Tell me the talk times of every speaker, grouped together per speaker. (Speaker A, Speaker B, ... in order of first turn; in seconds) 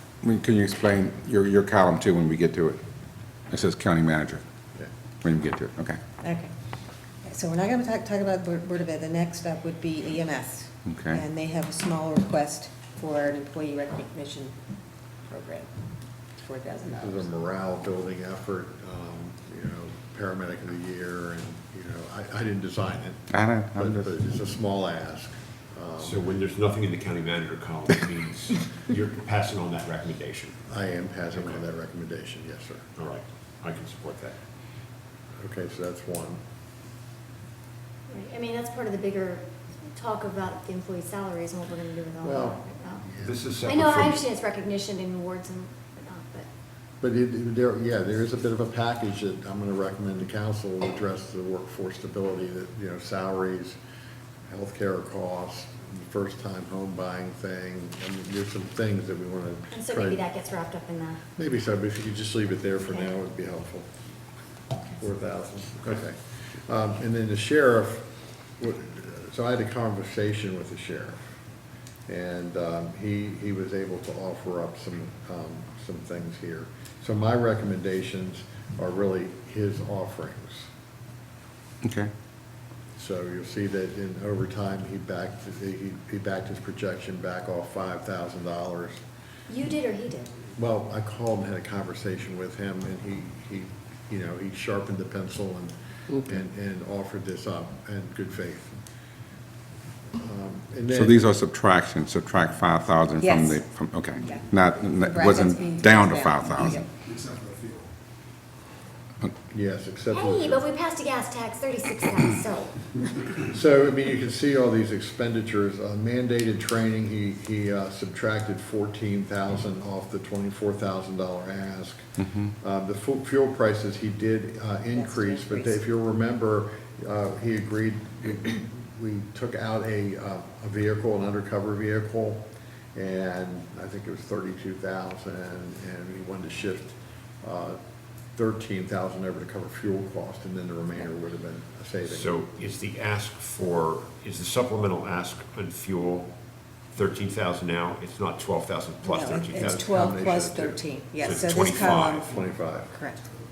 Speaker A: 0.2-2.8, 3.5-4.4, 5.2-6.0, 10.8-11.2, 23.3-24.1, 81.8-82.1, 100.9-106.8
Speaker B: 6.2-6.5, 7.2-14.6, 15.3-15.7, 16.4-17.3, 103.2-103.6, 104.2-106.9, 124.9-125.8, 149.0-153.2
Speaker C: 16.9-26.2, 30.7-32.9, 35.4-36.4, 42.2-43.3, 47.0-53.8, 54.5-60.2, 61.4-63.9, 65.0-71.2, 72.1-80.7, 83.0-89.0, 90.5-98.7, 100.1-101.2, 109.5-110.6, 113.4-132.4, 132.9-137.8, 138.3-142.4, 149.8-150.8, 152.2-152.9
Speaker D: 26.0-30.6, 31.3-31.6, 33.0-34.4, 43.2-44.2, 142.0-146.3, 146.9-150.0, 151.2-152.3
Speaker E: 38.1-43.0, 43.6-46.5, 59.7-61.2, 89.5-90.3, 110.1-113.1